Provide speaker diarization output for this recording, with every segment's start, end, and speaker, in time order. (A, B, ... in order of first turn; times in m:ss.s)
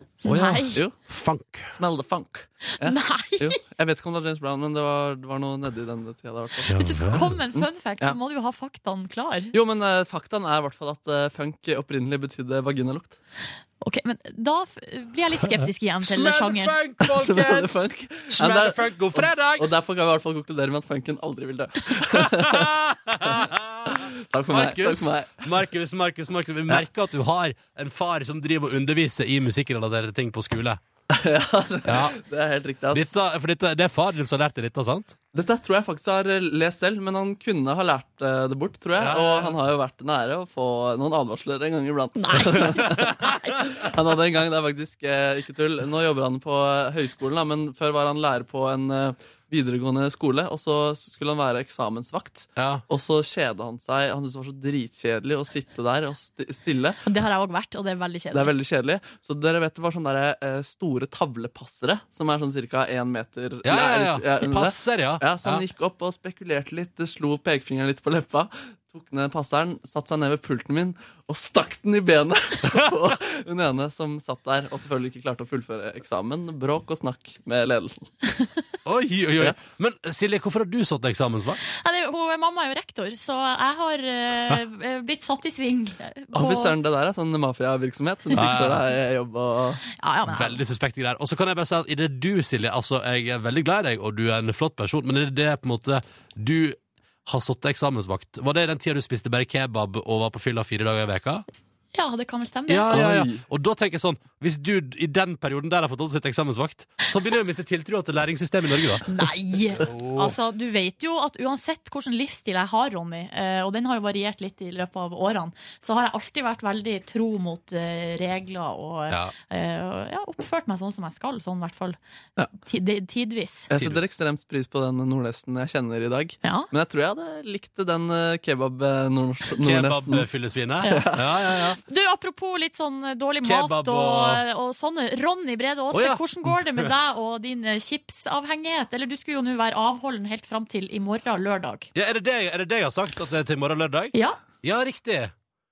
0:00.2-0:00.8 A
0:00.2-0:01.7 B
0:01.7-0:08.2 C
0:02.8-0:03.6 A
0:06.7-0:07.4 B
0:06.7-0:09.5 A
0:09.5-0:13.2 C
0:13.8-0:16.8 A
0:16.0-0:19.7 B
0:17.1-0:22.7 C
0:22.0-0:30.8 B
0:23.2-0:25.6 C
0:31.1-0:33.1 C
0:31.8-0:32.2 B
0:32.9-0:35.2 B
0:35.3-0:57.0 C
0:39.0-0:39.6 B
0:42.2-0:43.7 A
0:42.8-0:43.3 B
0:52.6-0:52.8 B
0:57.0-0:58.5 A
0:58.3-1:18.1 C
1:03.6-1:05.6 B
1:12.7-1:12.9 B
1:18.8-1:21.6 B
1:21.6-1:26.7 A
1:26.3-1:29.8 C
1:28.3-1:28.8 B
1:30.0-1:30.6 A
1:30.2-1:41.4 B
1:41.9-1:43.0 A
1:42.7-1:49.0 B
1:43.0-1:43.3 C
1:49.1-2:02.0 A
1:49.7-1:50.4 B
1:59.1-1:59.3 B
2:02.6-2:03.7 A
2:03.7-2:10.2 C
2:03.7-2:04.0 B
2:06.4-2:06.7 A
2:09.6-2:11.8 B
2:10.8-2:11.1 A
2:11.0-2:11.6 C
2:11.9-2:21.9 A
2:13.4-2:14.4 B
2:15.9-2:16.9 B
2:21.9-2:25.3 B